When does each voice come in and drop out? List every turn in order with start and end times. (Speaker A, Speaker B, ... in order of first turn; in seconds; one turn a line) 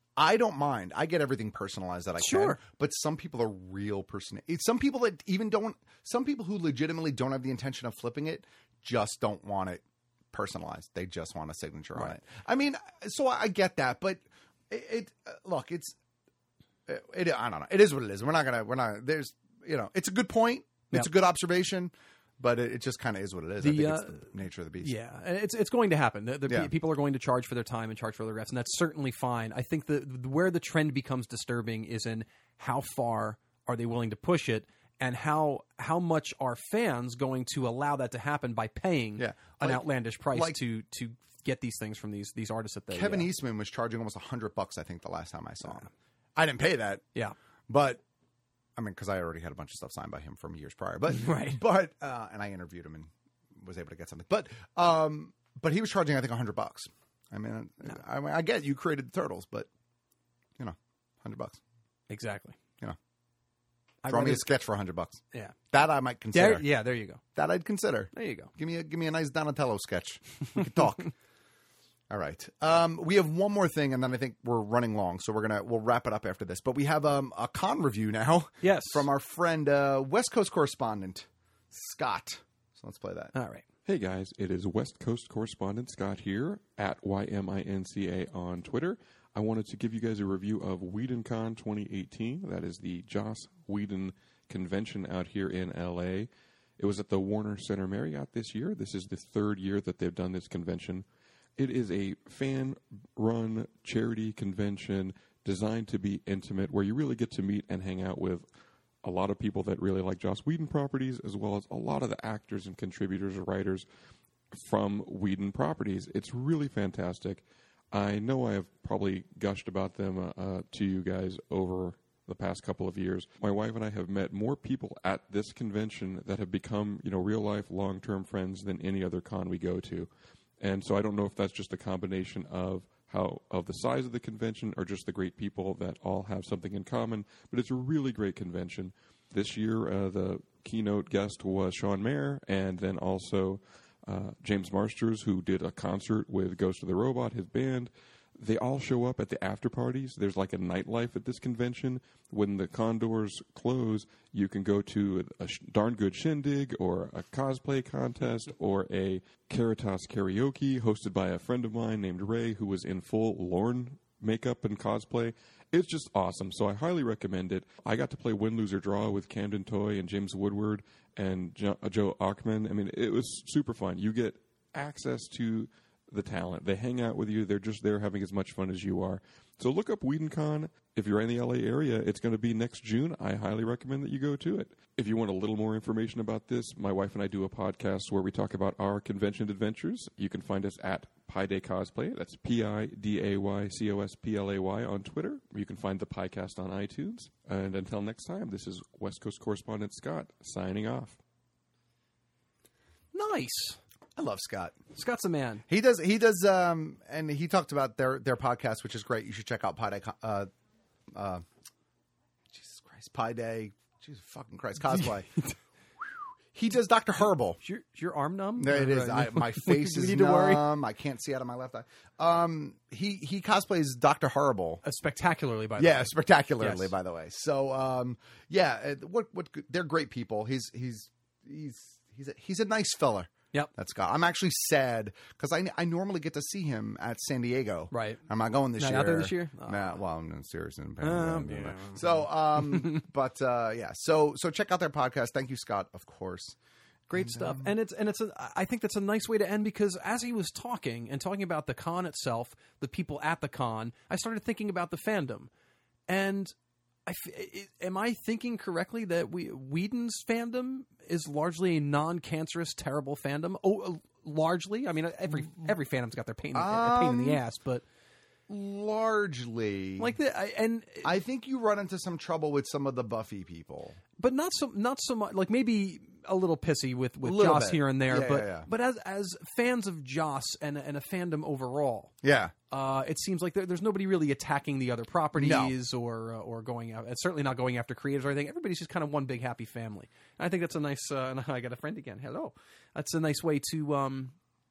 Speaker A: 0.1-15.9
Speaker B: 2.2-2.6
Speaker A: 16.9-24.9
Speaker B: 23.6-43.3
Speaker A: 26.5-26.7
Speaker A: 39.2-40.6
Speaker A: 42.9-47.0
Speaker A: 47.7-48.0
Speaker A: 48.8-59.7
Speaker B: 51.1-51.6
Speaker A: 60.6-61.6
Speaker B: 62.1-62.6
Speaker B: 64.0-64.5
Speaker A: 64.1-66.7
Speaker B: 66.3-67.2
Speaker A: 67.3-71.1
Speaker B: 68.1-68.5
Speaker A: 72.1-83.3
Speaker B: 78.6-79.1
Speaker B: 83.3-83.6
Speaker C: 83.8-101.0
Speaker C: 101.6-108.5
Speaker C: 109.0-113.8
Speaker C: 114.5-130.1
Speaker C: 130.6-201.2
Speaker B: 203.1-203.8
Speaker A: 204.2-204.8
Speaker B: 204.9-205.6
Speaker A: 205.7-210.5
Speaker A: 211.1-211.4
Speaker A: 212.5-215.3
Speaker A: 216.5-217.6
Speaker B: 217.6-220.7
Speaker A: 218.6-224.8
Speaker B: 224.8-226.9
Speaker A: 225.8-246.6
Speaker B: 237.9-238.2
Speaker B: 238.8-240.0
Speaker B: 241.0-243.0
Speaker B: 247.1-255.5
Speaker A: 247.1-247.7
Speaker B: 256.1-256.5
Speaker B: 257.1-267.8
Speaker A: 266.5-267.4
Speaker A: 268.5-270.1
Speaker B: 270.0-271.1
Speaker A: 271.0-274.0
Speaker B: 274.2-282.1
Speaker A: 277.2-278.7
Speaker A: 282.2-282.5
Speaker B: 282.7-294.3
Speaker A: 285.3-285.8